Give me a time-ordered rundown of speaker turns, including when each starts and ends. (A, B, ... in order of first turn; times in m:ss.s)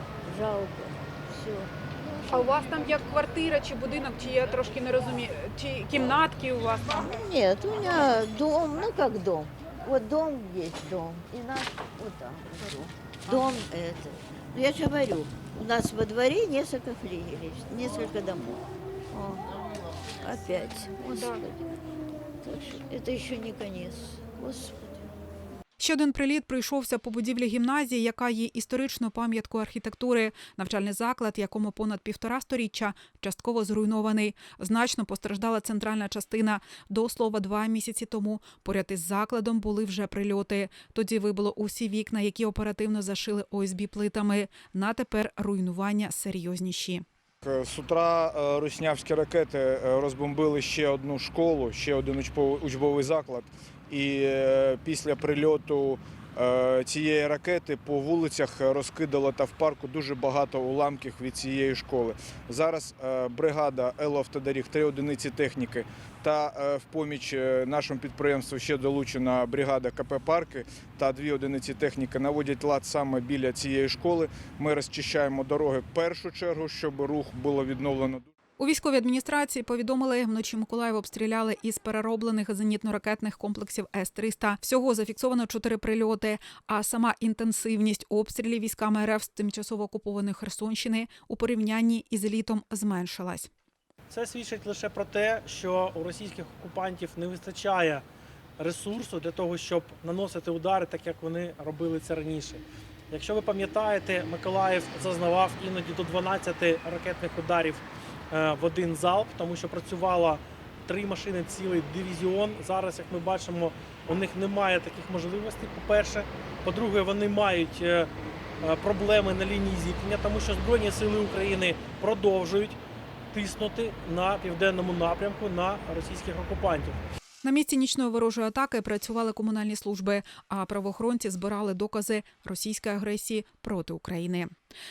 0:00.2-0:01.7 A
0:02.3-0:07.0 B
0:06.9-0:19.4 A
0:20.2-0:21.7 A
0:22.4-0:25.1 A
0:25.8-0:47.0 B
0:47.4-1:18.3 C
1:18.6-1:33.5 B
1:34.1-1:38.0 D
1:38.6-1:58.1 D
1:58.6-2:02.8 D
2:03.3-2:07.0 D
2:07.4-2:14.5 B